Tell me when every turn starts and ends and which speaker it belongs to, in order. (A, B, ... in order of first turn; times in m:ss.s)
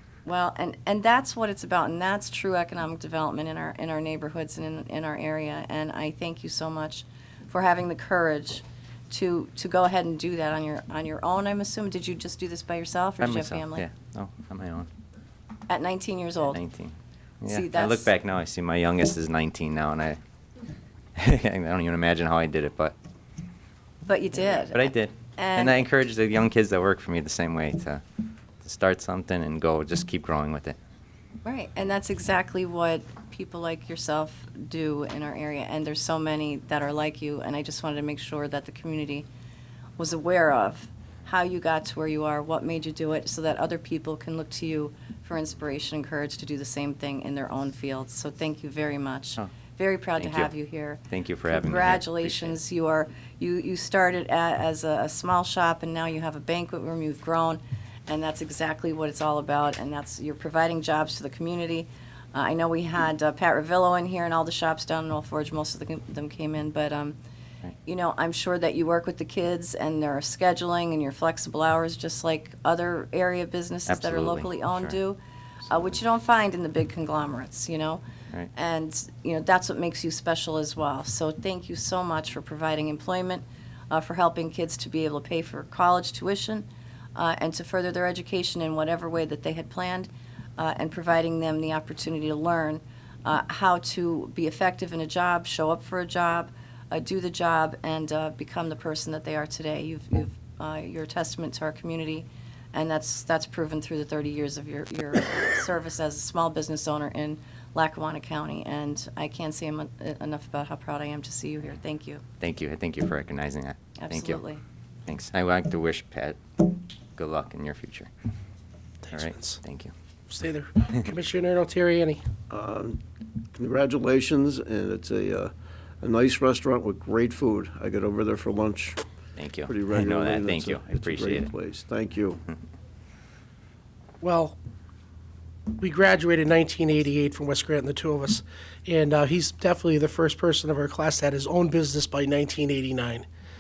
0:00.2-0:13.8 A
0:13.2-0:14.9 B
0:15.7-0:16.6 A
0:16.5-0:20.2 B
0:17.5-0:18.1 A
0:21.2-0:22.9 B
0:24.1-0:24.9 A
0:24.7-0:28.0 B
0:25.4-0:25.8 A
0:28.6-0:30.8 B
0:31.4-0:39.3 A
0:40.0-1:07.2 A
0:50.2-0:50.5 B
0:51.1-0:52.6 B
1:07.8-1:18.0 A
1:13.9-1:15.0 B
1:18.5-1:52.2 A
1:52.4-1:54.4 B
1:54.0-1:54.6 A
1:55.1-1:58.1 B
1:59.1-1:59.6 C
1:59.1-1:59.9 B
2:00.3-2:02.2 C
2:02.5-2:03.0 D
2:03.5-2:09.0 D
2:09.4-2:11.5 B
2:09.7-2:12.4 D
2:14.2-2:14.6 C
2:15.8-2:23.2 C